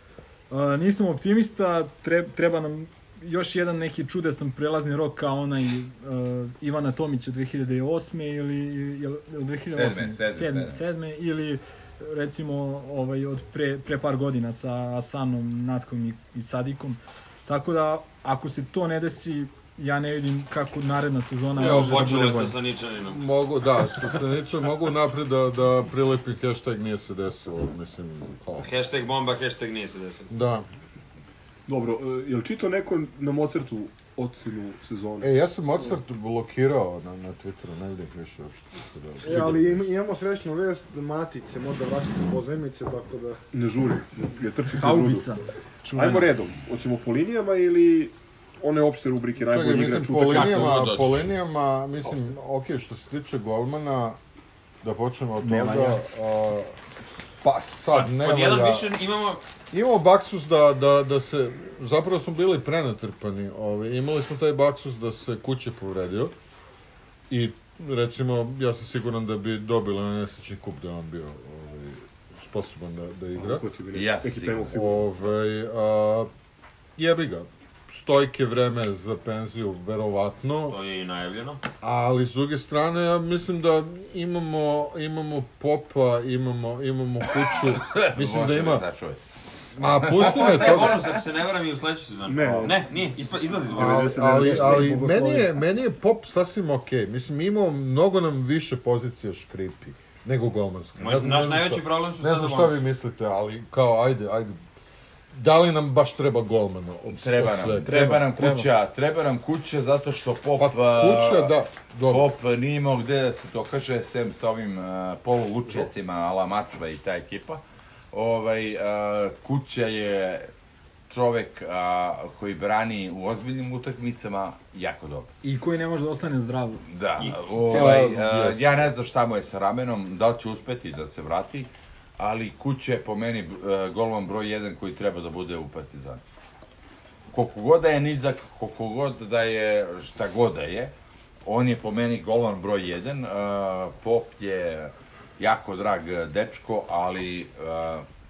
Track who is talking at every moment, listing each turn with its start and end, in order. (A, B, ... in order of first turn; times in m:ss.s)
0:00.5-0:22.6 A
0:09.6-0:10.8 B
0:21.5-0:23.3 C
0:21.6-0:22.0 D
0:23.1-0:28.7 D
0:23.9-0:24.1 C
0:28.6-0:30.3 C
0:30.3-0:30.7 D
0:31.7-0:35.3 E
0:35.2-0:39.9 D
0:39.2-0:43.4 F
0:43.5-0:45.3 E
0:44.8-0:46.3 A
0:45.9-0:50.9 E
0:49.4-0:54.2 D
0:50.2-0:51.2 B
0:54.8-0:56.7 D
0:55.4-0:56.0 A
0:57.4-0:58.9 D
0:57.9-0:59.4 C
0:59.7-1:06.3 D
1:07.3-1:13.6 D
1:13.3-1:15.0 E
1:13.9-1:14.7 B
1:14.7-1:16.3 D
1:17.0-1:20.8 D
1:20.7-1:21.6 C
1:21.8-1:28.8 D
1:27.6-1:29.2 B
1:29.8-1:31.0 D
1:29.8-1:30.9 B
1:30.1-1:34.4 C
1:32.2-1:33.0 E
1:33.6-1:35.0 E
1:33.7-1:44.6 D
1:34.3-1:35.5 F
1:41.0-1:42.8 C
1:45.3-1:48.2 D
1:47.1-1:51.5 B
1:47.9-1:48.6 A
1:50.6-1:52.3 D
1:52.1-1:57.6 B
1:58.1-2:00.5 B
2:01.1-2:05.3 B
2:05.4-2:06.8 A
2:06.9-2:16.2 B
2:07.6-2:08.6 D
2:17.3-2:20.9 B
2:21.4-2:28.0 B